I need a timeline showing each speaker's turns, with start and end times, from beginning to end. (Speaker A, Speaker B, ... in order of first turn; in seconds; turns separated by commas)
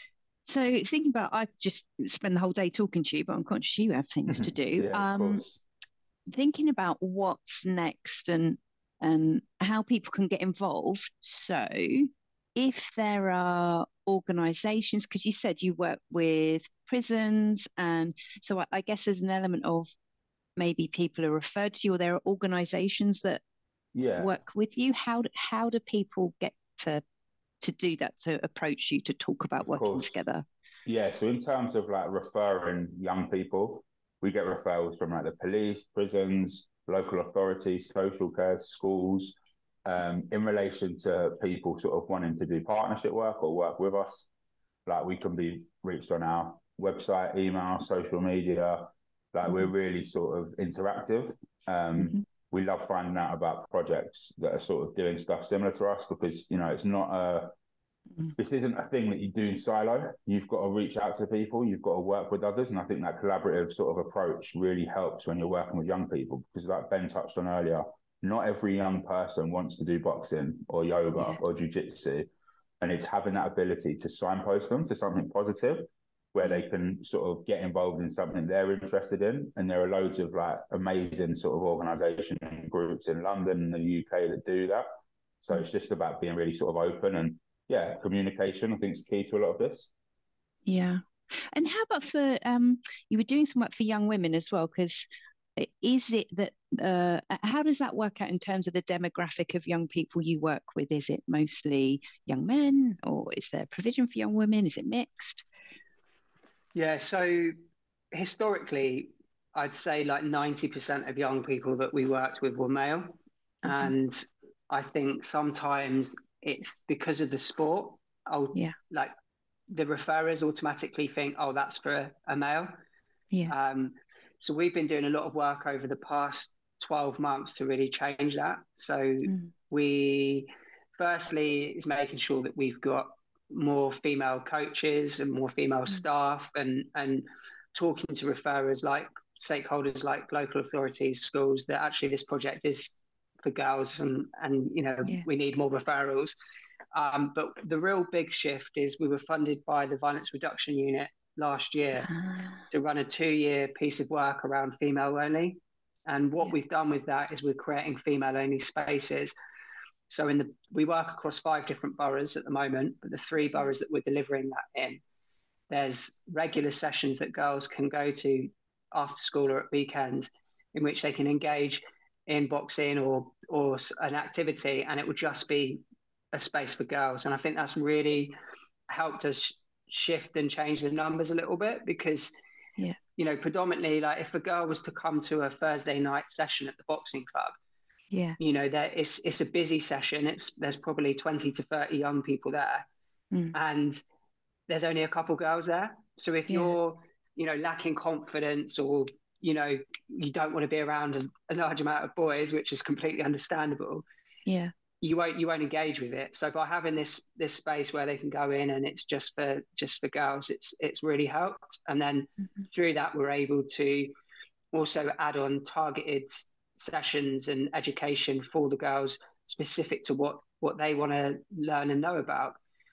Speaker A: 0.5-5.5, Speaker B: 4.3-5.6, Speaker A: 6.3-19.9, Speaker A: 20.6-23.4, Speaker B: 23.9-24.3, Speaker A: 24.2-27.0, Speaker A: 27.6-30.5, Speaker B: 29.6-30.1, Speaker B: 30.9-44.3, Speaker B: 44.9-57.5, Speaker A: 52.0-52.2, Speaker B: 58.4-72.3, Speaker A: 71.2-71.4, Speaker B: 72.8-84.8, Speaker B: 85.4-89.9, Speaker A: 90.7-105.5, Speaker C: 106.7-107.6, Speaker C: 108.1-119.1, Speaker A: 113.7-113.9, Speaker C: 119.7-122.7, Speaker C: 123.5-146.4, Speaker A: 129.3-129.5, Speaker C: 146.9-152.1, Speaker A: 152.0-152.6, Speaker C: 152.7-159.3, Speaker C: 160.1-165.0, Speaker C: 165.7-178.3, Speaker C: 178.9-182.3, Speaker C: 183.2-187.6, Speaker A: 188.1-188.4, Speaker C: 188.4-192.9, Speaker C: 193.5-194.0, Speaker C: 194.7-204.0, Speaker A: 196.5-196.8, Speaker A: 204.5-204.7, Speaker C: 205.0-214.1, Speaker C: 214.7-222.6